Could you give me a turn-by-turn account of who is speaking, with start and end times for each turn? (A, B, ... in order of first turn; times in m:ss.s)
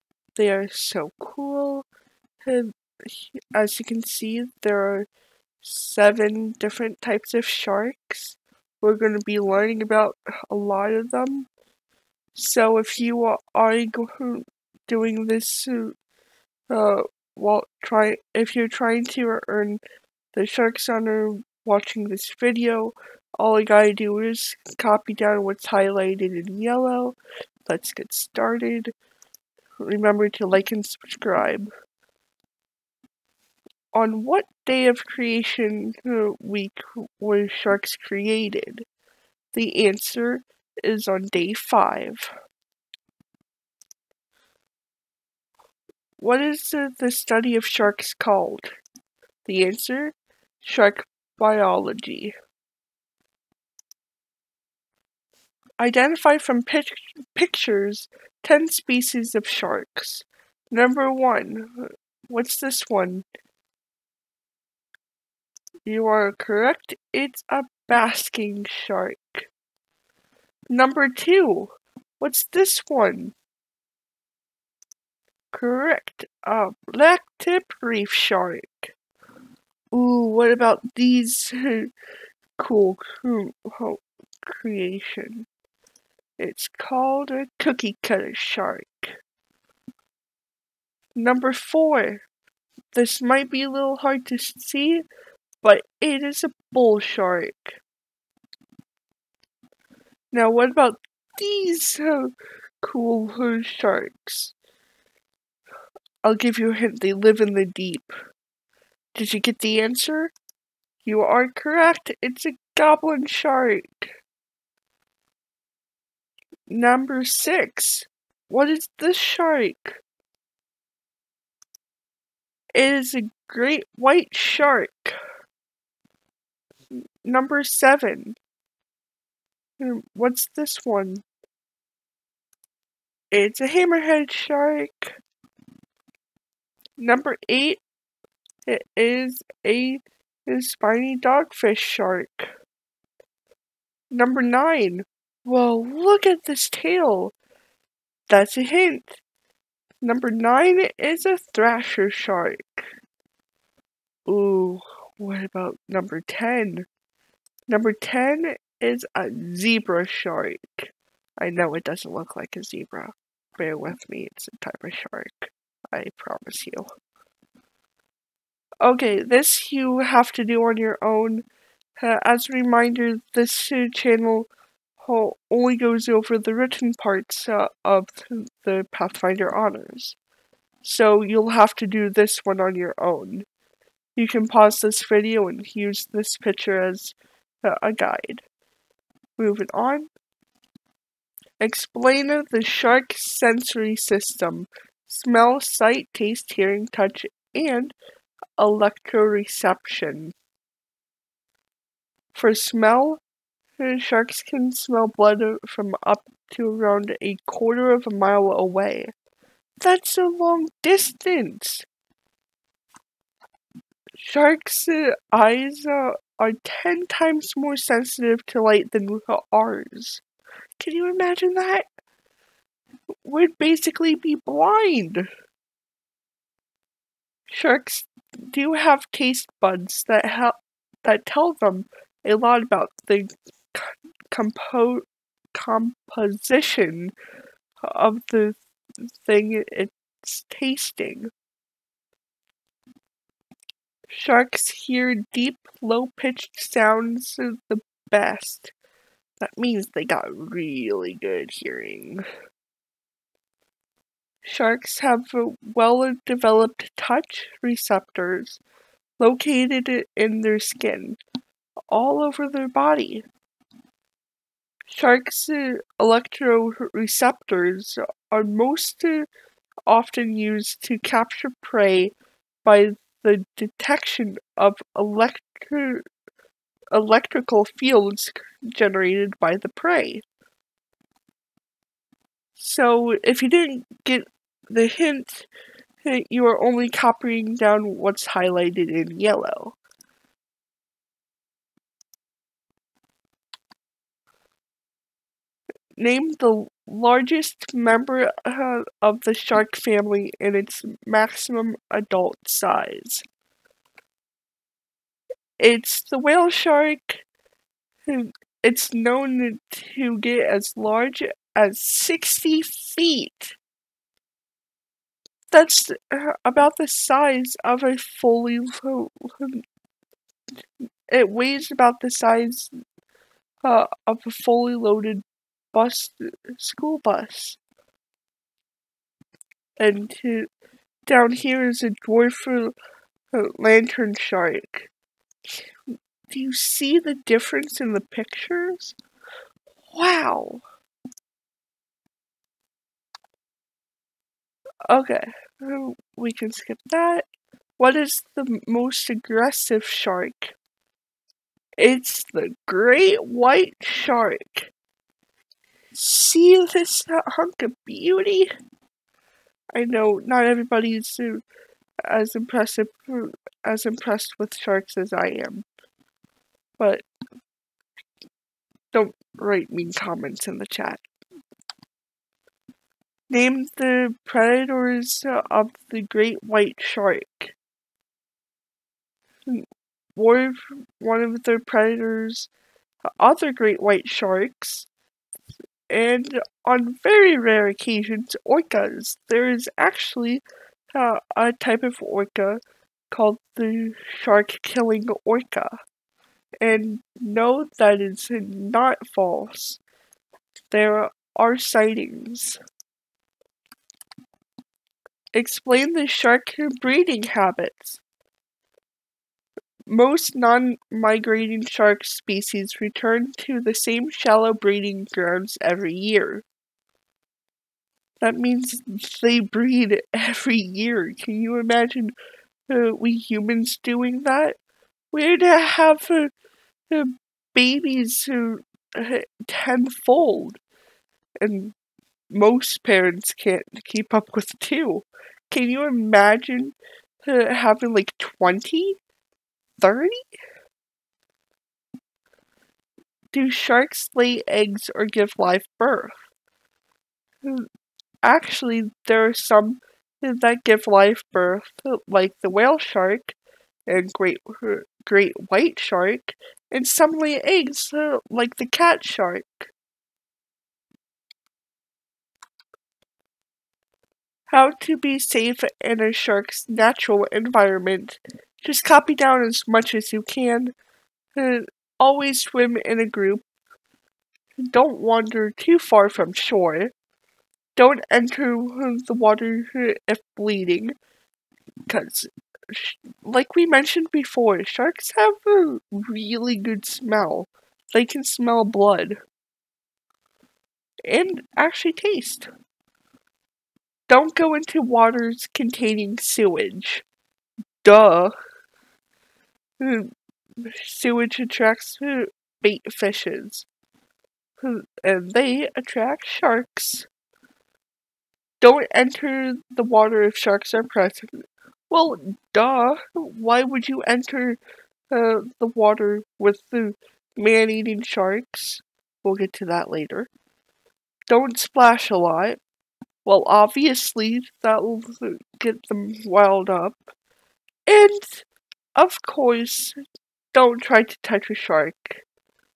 0:00.4-0:01.8 A
0:02.4-0:05.1 A
0:05.6-0:11.5 A
0:12.3-0:16.0 A
0:16.7-0:19.8 A
0:20.3-0:28.9 A
0:29.8-0:31.7 A
0:33.9-0:38.8 A
0:39.5-0:42.3 A
0:46.2-0:48.7 A
0:49.4-0:52.3 A
0:55.8-1:03.2 A
1:05.8-1:09.5 A
1:10.7-1:13.3 A
1:15.5-1:18.9 A
1:19.9-1:21.9 A
1:22.6-1:25.5 A
1:26.4-1:29.2 A
1:31.2-1:32.2 A
1:32.9-1:35.0 A
1:35.6-1:37.8 A
1:40.3-1:44.5 A
1:46.2-1:48.1 A
1:49.1-1:50.3 A
1:51.0-1:54.1 A
1:56.7-2:00.0 A
2:02.7-2:05.1 A
2:07.2-2:08.4 A
2:09.8-2:11.2 A
2:13.3-2:15.1 A
2:17.0-2:17.8 A
2:18.6-2:22.5 A
2:24.1-2:27.3 A
2:28.3-2:29.2 A
2:30.0-2:32.9 A
2:34.3-2:36.8 A
2:37.7-2:46.9 A
2:48.8-2:51.4 A
2:52.0-2:54.5 A
2:55.0-3:00.2 A
3:00.8-3:03.4 A
3:04.2-3:08.4 A
3:09.4-3:10.1 A
3:11.6-3:17.9 A
3:18.6-3:20.3 A
3:22.3-3:23.2 A
3:23.8-3:29.1 A
3:29.8-3:31.9 A
3:34.2-3:40.2 A
3:40.8-3:41.9 A
3:43.2-3:45.3 A
3:47.5-3:57.1 A
3:57.8-4:01.3 A
4:04.1-4:08.7 A
4:09.4-4:12.2 A
4:14.4-4:18.6 A
4:19.2-4:21.2 A
4:21.9-4:23.2 A
4:24.9-4:29.3 A
4:29.9-4:36.0 A
4:36.9-4:40.2 A
4:42.6-4:45.5 A
4:46.0-4:49.8 A
4:56.0-5:03.2 A
5:05.6-5:07.2 A
5:08.1-5:13.6 A
5:15.5-5:19.6 A
5:21.1-5:22.7 A
5:23.6-5:27.6 A
5:29.8-5:30.5 A
5:31.0-5:32.7 A
5:33.3-5:34.9 A
5:36.3-5:39.0 A
5:39.9-5:40.6 A
5:44.9-5:47.2 A
5:47.8-5:50.5 A
5:51.8-5:54.7 A
5:55.9-5:58.5 A
5:59.7-6:01.4 A
6:02.1-6:05.6 A
6:06.8-6:07.0 A
6:08.9-6:11.0 A
6:13.3-6:17.6 A
6:20.2-6:22.5 A
6:23.2-6:24.9 A
6:25.9-6:32.6 A
6:33.1-6:35.8 A
6:36.6-6:39.8 A
6:40.7-6:42.6 A
6:45.3-6:48.0 A
6:49.9-6:56.4 A
6:58.2-7:02.1 A
7:02.7-7:04.6 A
7:05.1-7:06.3 A
7:06.9-7:10.6 A
7:11.4-7:11.7 A
7:12.3-7:19.0 A
7:19.8-7:20.2 A
7:23.3-7:26.1 A
7:28.2-7:33.4 A
7:33.9-7:39.7 A
7:44.5-7:50.7 A
7:51.4-7:53.4 A
7:54.7-7:56.9 A
7:57.8-8:00.9 A
8:01.9-8:09.2 A
8:11.0-8:12.5 A
8:14.1-8:17.0 A
8:17.8-8:18.3 A
8:19.8-8:20.1 A
8:20.6-8:23.6 A
8:24.6-8:27.1 A
8:28.6-8:34.6 A
8:35.1-8:40.3 A
8:41.3-8:42.6 A
8:43.2-8:47.1 A
8:47.9-8:48.4 A
8:49.0-8:50.0 A
8:50.5-8:52.2 A